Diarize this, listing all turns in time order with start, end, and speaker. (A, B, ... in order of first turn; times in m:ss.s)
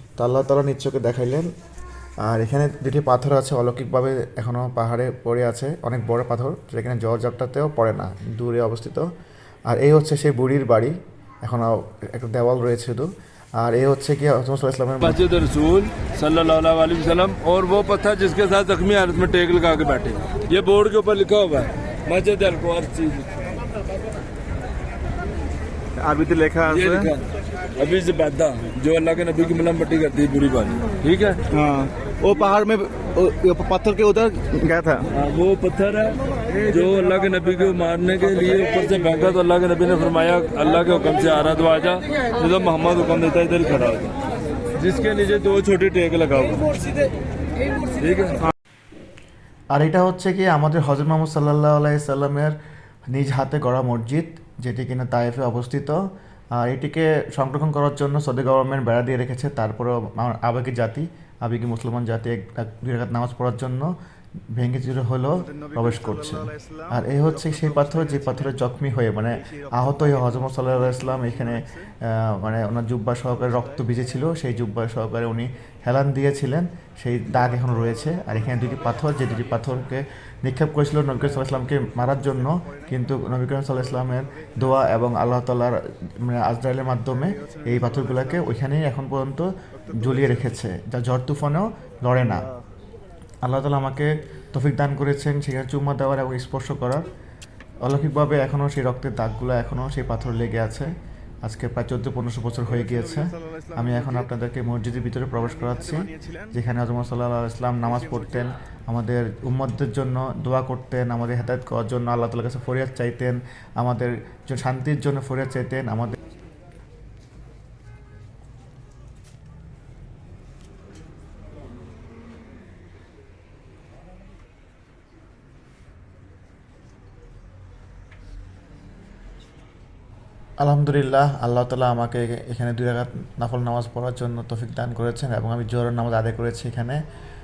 0:00.2-0:01.5 A
0:02.2-0:09.1 A
0:09.7-0:15.2 A
0:15.0-0:23.4 B
0:26.0-0:27.1 C
0:26.7-0:27.2 B
0:27.8-0:31.4 B
0:31.5-0:35.1 C
0:35.1-0:44.2 B
0:44.8-0:47.0 B
0:47.8-0:48.4 B
0:49.7-0:52.6 A
0:53.1-0:56.0 A
0:56.6-1:03.9 A
1:04.6-1:32.5 A
1:05.4-1:08.6 C
1:09.3-1:11.9 C
1:13.4-1:13.8 C
1:17.6-1:19.5 C
1:21.4-1:23.0 C
1:24.0-1:24.8 C
1:27.1-1:28.5 C
1:29.8-1:30.6 C
1:33.4-1:37.0 A
1:37.8-1:40.9 A
1:41.4-1:56.2 A
1:42.7-1:44.3 C
1:45.4-1:46.5 C
1:47.8-1:48.5 C
2:10.6-2:17.0 A